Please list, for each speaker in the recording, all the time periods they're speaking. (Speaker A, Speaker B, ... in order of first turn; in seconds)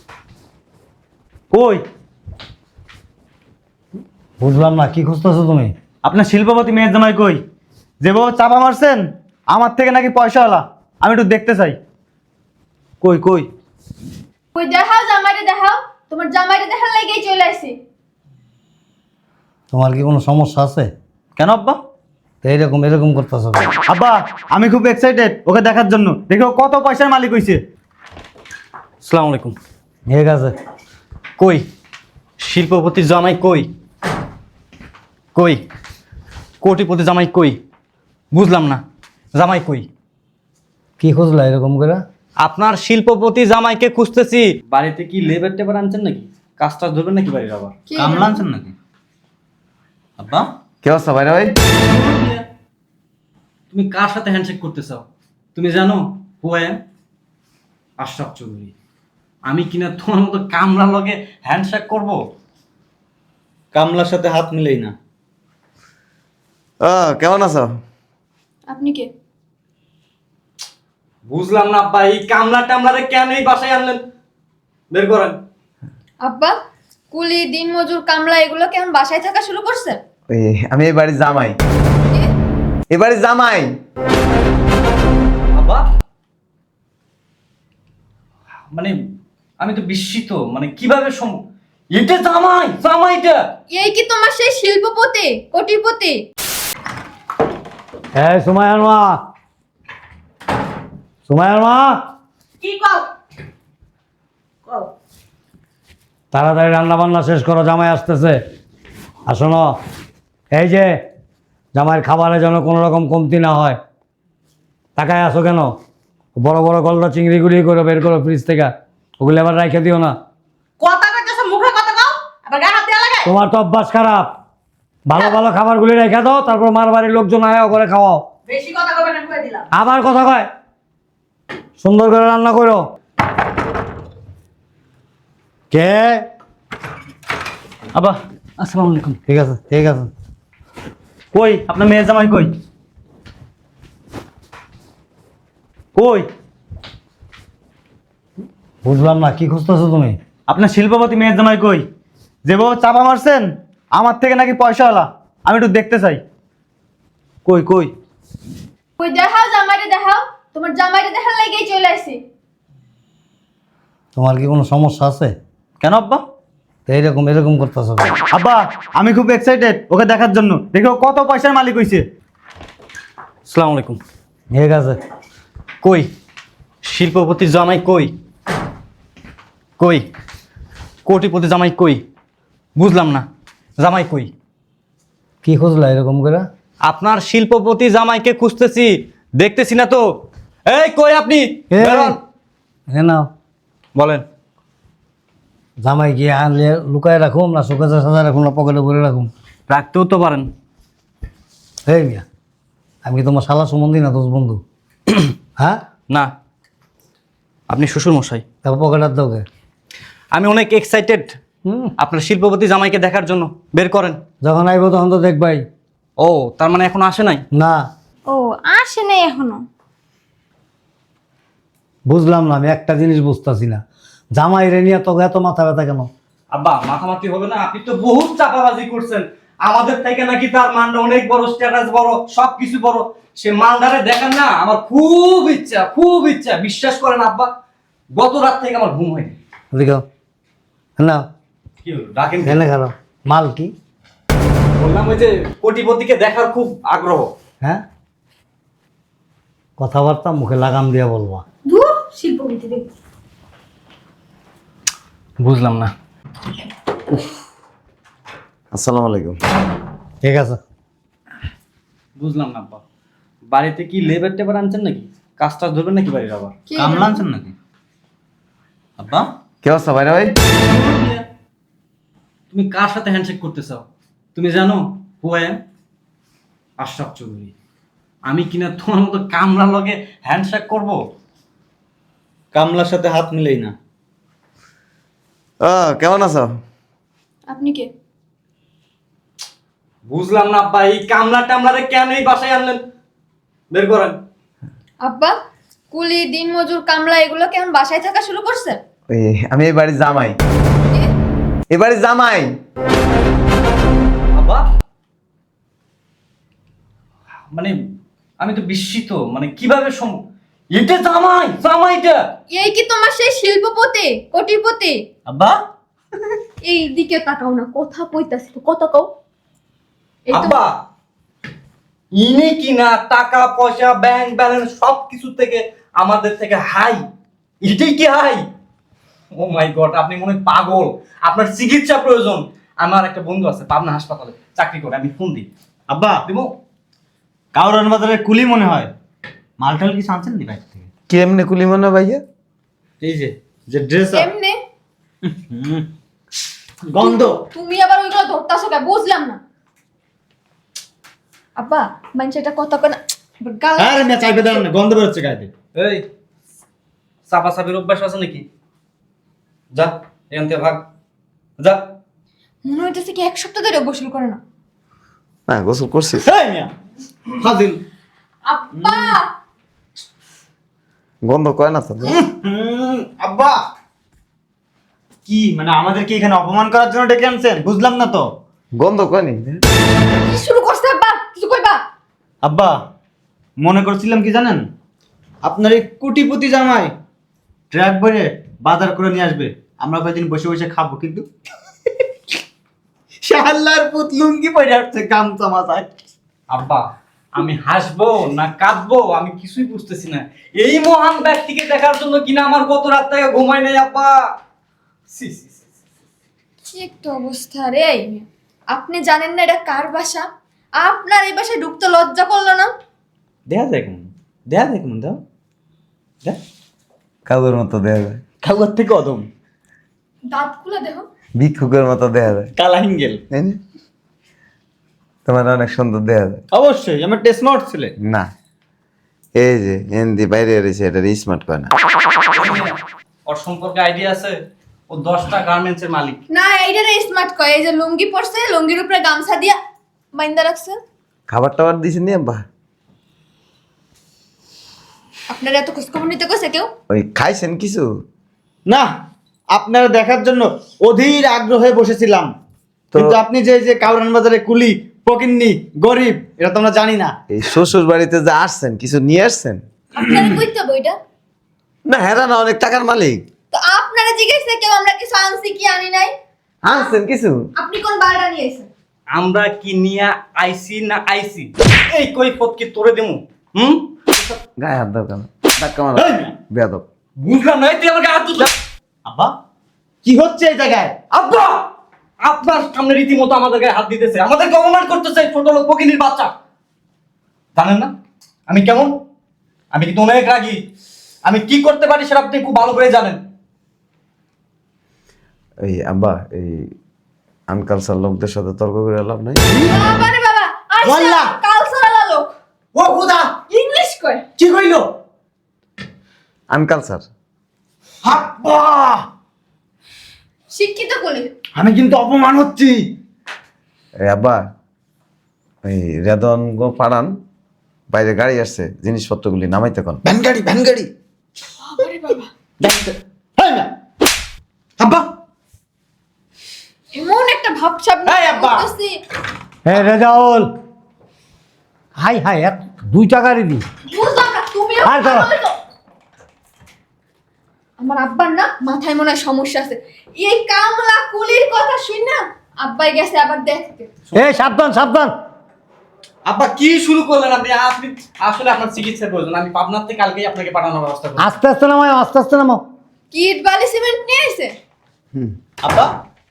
Speaker A: 1.5-1.8, 6.0-7.4, 8.0-11.8, 13.0-13.5, 21.4-21.8, 23.9-27.6, 48.0-48.7, 50.2-50.5, 63.7-64.9, 137.9-138.2, 141.3-142.5, 145.9-146.3, 150.5-151.8, 152.4-156.2, 157.4-157.9, 165.8-166.2, 168.3-172.1, 266.8-267.5, 269.0-269.3, 282.5-283.7, 315.3-315.6, 335.9-336.2, 337.5-338.9, 339.6-340.9, 343.0-344.3, 345.3-345.9, 346.9-347.4, 353.8-355.5, 366.2-366.7, 367.3-367.8, 368.7-369.2, 372.0-373.6, 375.2-378.3, 382.4-382.8, 383.6-384.6, 385.4-386.9, 387.7-391.3, 393.2-395.9, 413.5-415.2, 418.4-419.3, 422.6-423.2, 426.5-427.9, 449.5-452.3, 452.9-457.1, 475.9-476.3, 479.1-479.3, 480.0-481.0, 499.4-499.8, 500.8-501.4, 502.7-503.4, 504.4-504.9, 508.0-509.1, 511.6-512.9, 520.0-520.9, 522.6-523.7, 524.8-525.1, 528.0-528.7, 546.2-546.5, 555.6-555.9
Speaker B: 4.4-5.7, 19.7-20.9, 22.4-23.7, 30.1-30.6, 41.0-42.0, 98.2-99.2, 101.3-102.0, 106.3-108.4, 109.3-109.7, 110.5-111.0, 111.7-113.8, 115.0-115.7, 116.3-120.2, 123.2-124.3, 125.0-128.2, 129.7-130.5, 131.8-132.8, 135.7-136.2, 139.3-140.1, 148.8-150.2, 164.2-165.3, 166.9-168.2, 174.5-175.0, 185.4-186.5, 191.7-192.2, 192.9-193.3, 195.8-199.3, 201.9-202.2, 203.0-204.6, 208.6-209.4, 211.6-211.9, 214.4-215.6, 217.5-217.8, 222.1-223.8, 224.3-226.1, 239.7-240.0, 241.0-241.2, 242.4-243.7, 249.8-251.4, 260.2-260.6, 529.6-530.5, 532.0-533.6, 534.8-535.3, 544.1-545.1, 551.2-552.6
Speaker C: 14.5-17.7, 47.9-48.4, 68.7-69.1, 76.2-76.5, 77.1-80.0, 93.7-96.2, 159.0-162.2, 218.3-219.6, 251.7-252.9, 266.7-267.2, 287.5-287.9, 295.0-295.3, 295.9-298.8, 300.9-301.1, 312.5-315.0, 316.6-319.1, 320.3-320.6, 344.1-344.6, 347.0-349.4, 351.6-354.6, 362.6-364.4, 368.4-369.3, 380.2-381.8, 406.7-410.2, 410.8-412.7, 420.3-421.1, 436.3-439.6, 440.1-440.8, 445.3-446.7, 459.9-461.0, 463.5-466.1, 466.7-466.9, 467.6-468.7, 499.6-502.3, 503.5-504.2, 510.5-511.3, 521.6-522.3, 526.9-529.0, 533.9-535.5, 537.8-543.9, 553.1-554.5
Speaker D: 29.0-29.6, 31.4-31.6, 32.4-33.7, 35.3-35.6, 36.6-37.6, 38.3-38.8, 39.3-39.9, 42.4-47.7, 51.7-52.4, 53.7-56.8, 58.0-58.7, 59.5-62.2, 71.3-74.0, 74.9-75.4, 85.5-85.8, 89.6-93.4, 138.6-139.2, 173.5-174.0, 175.8-176.1, 176.8-178.1, 179.8-180.1, 181.0-182.0, 182.8-183.3, 183.8-184.3, 186.8-192.2, 193.9-194.2, 199.7-200.5, 207.7-208.4, 210.3-211.3, 212.0-214.2, 216.2-217.4, 226.5-237.5, 238.1-239.3, 241.8-242.6, 244.8-247.3, 255.4-255.9, 262.1-262.8, 263.4-266.5, 270.7-271.0, 272.5-275.6, 276.8-277.5, 278.2-281.0, 290.1-292.8, 293.7-294.2, 304.3-304.7, 308.4-312.2, 320.3-320.7, 322.1-327.0, 327.6-328.4, 329.3-335.5, 336.2-336.5, 355.7-356.1, 357.3-358.4, 359.7-360.9, 361.6-361.9, 396.5-404.2, 405.1-405.6, 432.3-434.4, 434.9-436.2, 469.1-473.9, 477.2-478.5, 481.1-481.6, 482.2-486.3, 487.5-487.9, 488.5-488.9, 489.7-490.6, 491.2-493.2, 546.5-551.3
Speaker E: 50.8-51.5, 66.8-67.7, 80.3-81.6, 82.9-83.7, 258.7-259.4, 269.6-270.4, 285.6-286.5, 299.1-300.4, 301.7-302.5, 341.1-342.2, 365.5-366.3, 371.2-372.2, 378.8-379.6, 417.2-418.2, 421.4-422.5, 423.3-423.6, 425.2-426.4, 428.0-428.3, 429.4-431.7, 441.3-442.4, 446.9-447.9, 457.3-459.6, 461.9-463.2, 466.6-467.5, 474.6-476.8, 495.6-496.7, 497.5-499.4, 506.5-507.0, 514.0-514.4, 515.6-517.1, 517.9-520.0
Speaker F: 102.6-103.1, 120.8-123.2, 128.5-129.7